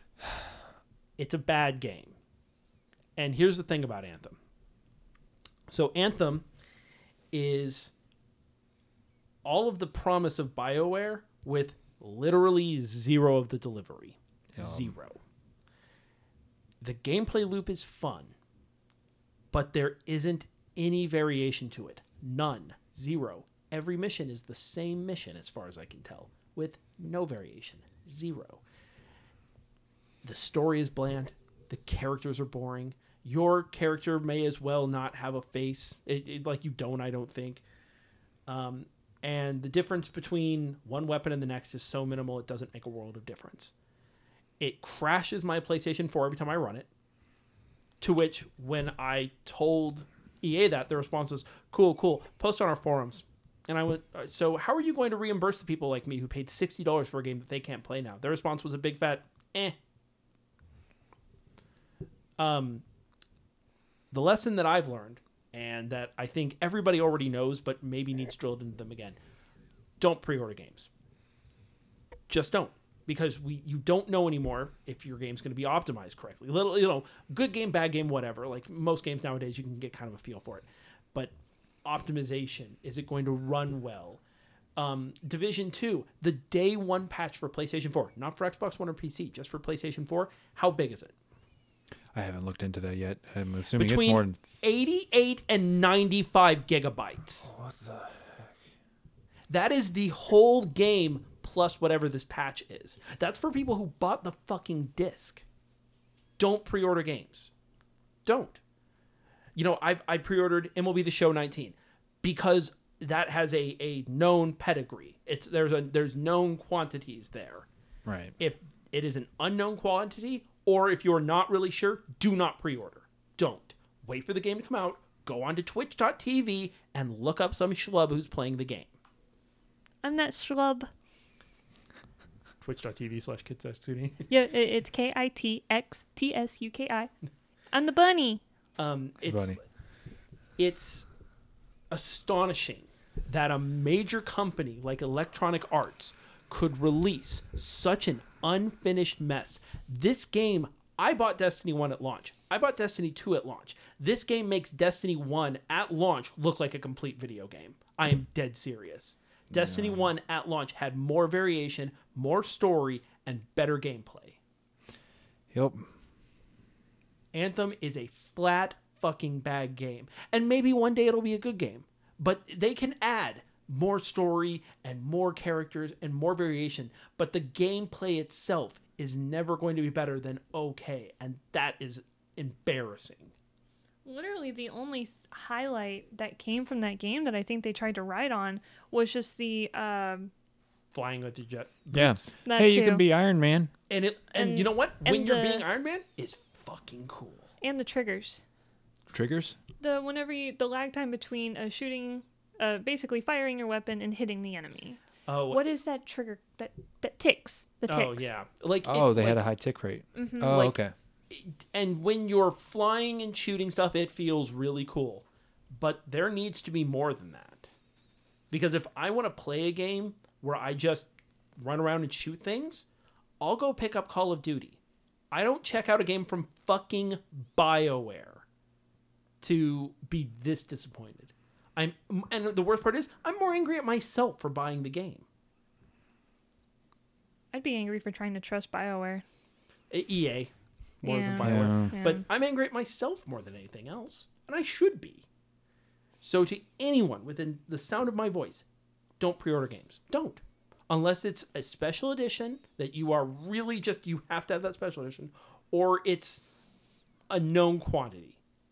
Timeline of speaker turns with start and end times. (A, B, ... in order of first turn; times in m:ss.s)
0:01.2-0:02.2 A
0:03.2-0:04.4 A
0:05.7-0:06.5 A
0:07.3-0:07.9 A
0:09.4-0:15.2 A
0:14.5-0:14.9 B
0:16.8-0:18.3 A
0:19.5-0:28.6 A
0:30.2-0:37.6 A
0:38.5-0:43.7 A
0:44.6-0:46.9 A
0:48.0-0:59.8 A
1:02.4-1:02.8 A
1:04.1-1:09.2 A
1:10.0-1:10.9 A
1:12.3-1:21.3 A
1:21.8-1:24.2 A
1:24.8-1:31.1 A
1:32.1-1:34.4 B
1:33.7-1:37.5 A
1:37.5-1:38.5 B
1:39.5-1:45.4 A
1:46.4-1:47.5 A
1:48.2-1:48.6 A
1:49.6-1:57.7 A
1:58.0-1:58.3 B
1:58.4-2:08.9 A
2:10.0-2:10.9 C
2:12.6-2:14.3 A
2:14.3-2:17.1 C
2:17.7-2:18.4 C
2:18.8-2:19.6 A
2:19.2-2:19.6 B
2:20.6-2:21.1 A
2:21.9-2:44.4 A
2:39.5-2:40.0 B
2:45.5-2:45.9 B
2:47.3-3:03.3 A
3:04.0-3:10.3 C
3:10.9-3:12.3 A
3:11.9-3:13.7 B
3:12.4-3:13.0 C
3:13.9-3:17.5 A
3:14.3-3:15.6 C
3:17.6-3:18.4 C
3:19.1-3:19.6 B
3:19.8-3:25.0 C
3:25.3-3:25.7 A
3:25.5-3:28.3 C
3:27.9-3:29.4 A
3:28.8-3:30.9 B
3:30.1-3:30.7 C
3:30.4-3:30.8 A
3:31.3-3:37.7 A
3:38.5-3:41.1 A
3:41.6-3:42.8 A
3:43.4-3:44.8 A
3:45.3-3:48.4 A
3:49.4-3:55.2 A
3:57.5-3:59.2 C
3:59.9-4:05.2 A
4:01.0-4:02.2 C
4:01.4-4:01.9 B
4:06.2-4:08.6 A
4:09.2-4:16.4 A
4:17.3-4:18.4 A